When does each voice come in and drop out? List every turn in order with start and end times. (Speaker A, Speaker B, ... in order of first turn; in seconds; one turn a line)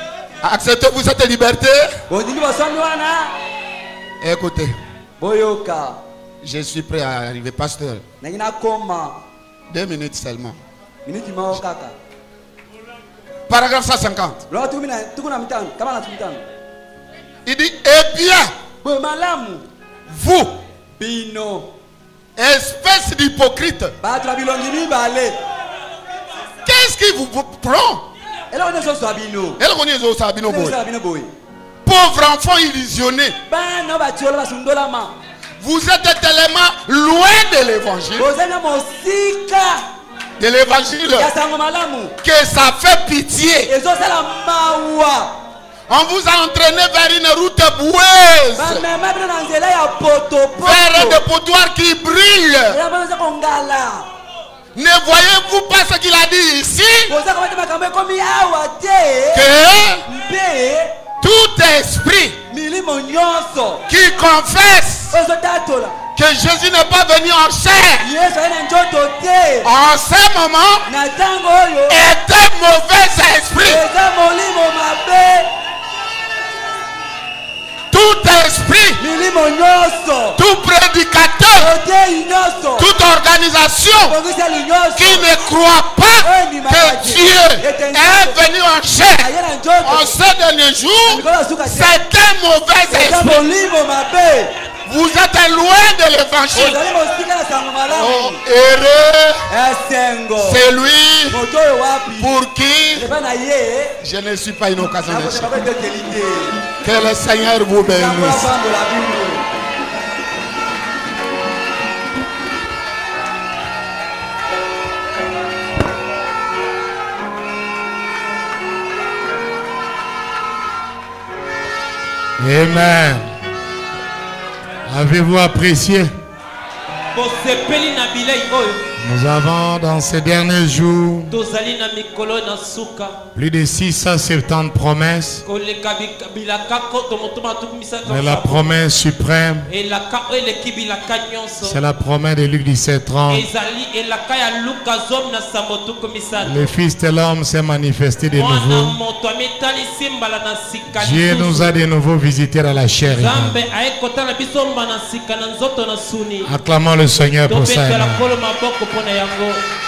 Speaker A: 0.4-2.0
Speaker B: 2.1-3.4
Speaker A: 4.2-4.8
Speaker B: 5.2-6.0
Speaker A: 6.4-8.0
Speaker B: 8.2-9.2
Speaker A: 9.7-10.6
Speaker B: 11.1-11.9
Speaker A: 13.5-14.4
Speaker B: 14.5-16.4
Speaker A: 17.5-18.5
Speaker B: 18.8-19.7
Speaker A: 20.1-20.6
Speaker B: 21.0-21.7
Speaker A: 22.4-23.9
Speaker B: 24.0-25.4
Speaker A: 26.6-28.1
Speaker B: 28.5-29.6
Speaker A: 29.6-30.8
Speaker B: 30.4-31.3
Speaker A: 31.9-33.4
Speaker B: 33.5-35.2
Speaker A: 35.6-38.3
Speaker B: 38.2-39.9
Speaker A: 40.4-41.3
Speaker B: 41.2-42.1
Speaker A: 42.2-43.7
Speaker B: 43.7-45.4
Speaker A: 45.9-48.8
Speaker B: 48.6-51.2
Speaker A: 50.6-52.8
Speaker B: 52.7-54.1
Speaker A: 54.8-57.1
Speaker B: 57.1-59.5
Speaker A: 59.3-60.0
Speaker B: 60.1-61.0
Speaker A: 61.2-62.4
Speaker B: 62.5-63.8
Speaker A: 63.9-65.2
Speaker B: 65.1-66.0
Speaker A: 66.2-68.1
Speaker B: 68.0-69.7
Speaker A: 69.7-70.8
Speaker B: 70.9-72.0
Speaker A: 71.9-73.8
Speaker B: 73.6-75.5
Speaker A: 77.9-79.0
Speaker B: 79.0-80.4
Speaker A: 80.4-81.7
Speaker B: 81.6-82.9
Speaker A: 82.8-84.2
Speaker B: 84.1-85.3
Speaker A: 85.0-89.3
Speaker B: 86.2-88.4
Speaker B: 89.2-90.2
Speaker A: 89.8-93.4
Speaker B: 91.1-91.9
Speaker B: 92.9-94.5
Speaker A: 94.9-96.8
Speaker B: 96.5-98.4
Speaker A: 97.9-99.4
Speaker B: 99.5-100.6
Speaker A: 100.4-101.4
Speaker B: 101.3-102.3
Speaker A: 102.2-103.1
Speaker B: 102.9-104.0
Speaker A: 104.0-105.5
Speaker B: 105.1-106.7
Speaker A: 106.8-108.5
Speaker B: 107.9-109.5
Speaker C: 122.4-123.3
Speaker C: 124.9-126.1
Speaker D: 127.1-128.9
Speaker C: 129.0-131.4
Speaker D: 131.3-133.2
Speaker C: 133.3-135.4
Speaker D: 135.4-138.8
Speaker C: 138.1-139.7
Speaker D: 139.7-141.8
Speaker C: 141.6-143.5
Speaker D: 143.3-146.7
Speaker C: 146.4-149.0
Speaker D: 148.3-151.8
Speaker C: 150.9-153.6
Speaker D: 153.1-156.5
Speaker C: 156.5-158.3
Speaker D: 157.5-159.6